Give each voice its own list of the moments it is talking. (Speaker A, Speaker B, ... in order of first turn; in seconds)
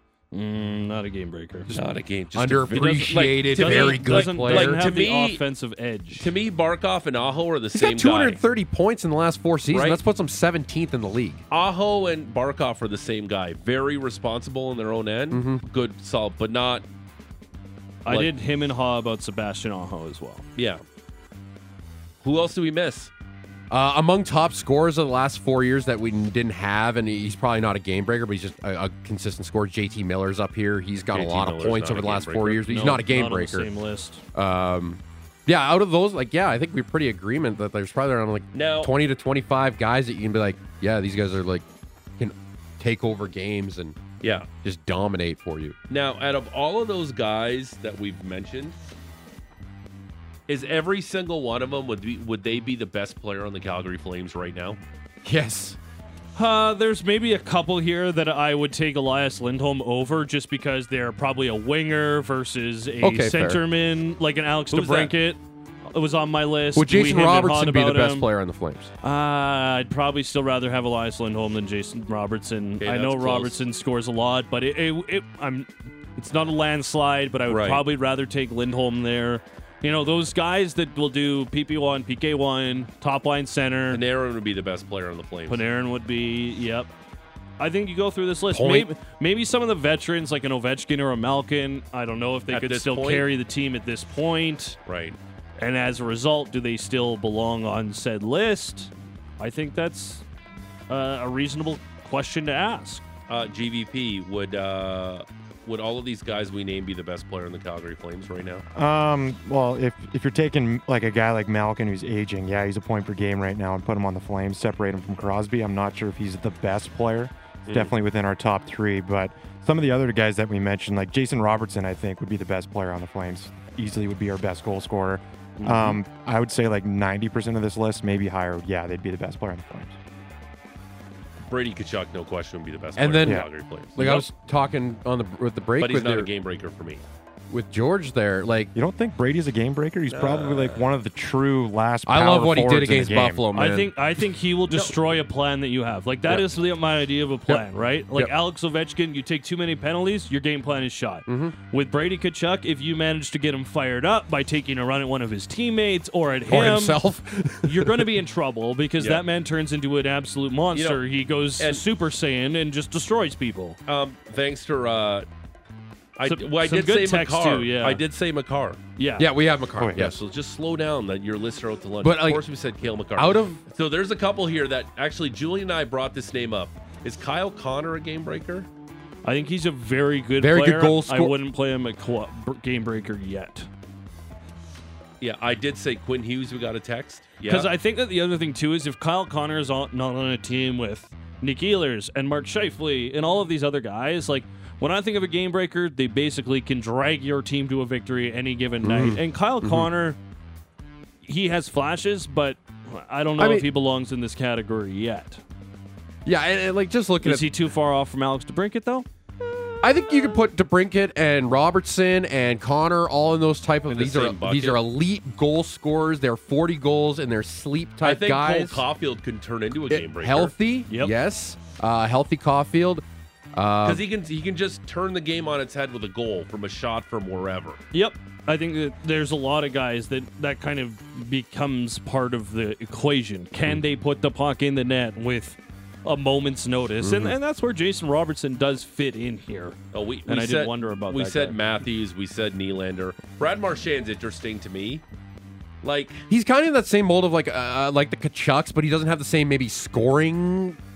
Speaker A: 0.3-1.7, 2.7-6.3, 18.0-20.4, 32.6-34.2, 56.4-68.3, 69.0-84.0, 85.5-86.9, 87.6-94.8, 95.6-100.2, 100.9-103.0, 143.5-157.0, 157.6-163.8, 166.2-168.0, 169.0-169.3, 179.2-183.7, 187.4-200.2, 201.2-205.4, 207.2-209.1, 227.9-241.6
Speaker B: 1.7-4.8, 7.7-11.4, 15.3-15.6, 23.7-33.7, 34.3-41.6, 42.2-44.0, 44.6-45.8, 55.2-55.8, 63.0-63.6, 66.7-68.9, 88.5-88.9, 133.0-136.3, 137.5-138.7, 142.1-143.9, 147.5-148.3, 151.3-151.5, 156.5-158.1, 169.2-170.2, 172.0-172.4, 173.1-173.6, 180.4-181.4, 198.8-199.9, 203.4-203.7, 206.2-207.5, 209.8-218.8, 219.9-224.0, 237.0-237.3, 246.3-250.8
Speaker C: 1.7-5.4, 6.1-8.4, 9.7-10.0, 11.5-16.8, 18.1-18.3, 20.6-20.8, 22.2-23.1, 31.1-32.6, 38.5-38.9, 44.2-44.5, 45.9-48.8, 50.5-54.8, 64.7-65.1, 72.8-73.6, 77.5-77.8, 83.9-85.6, 92.5-93.3, 94.8-95.2, 103.3-108.6, 117.7-117.9, 131.4-134.3, 135.8-137.0, 140.1-140.9, 159.0-159.2, 160.7-161.0, 163.8-165.3, 166.2-168.8, 169.9-178.7, 185.2-187.7, 213.9-214.8, 218.0-220.5, 223.8-227.8, 239.9-245.0, 245.8-246.2
Speaker D: 108.7-129.9, 138.7-143.4, 169.8-170.1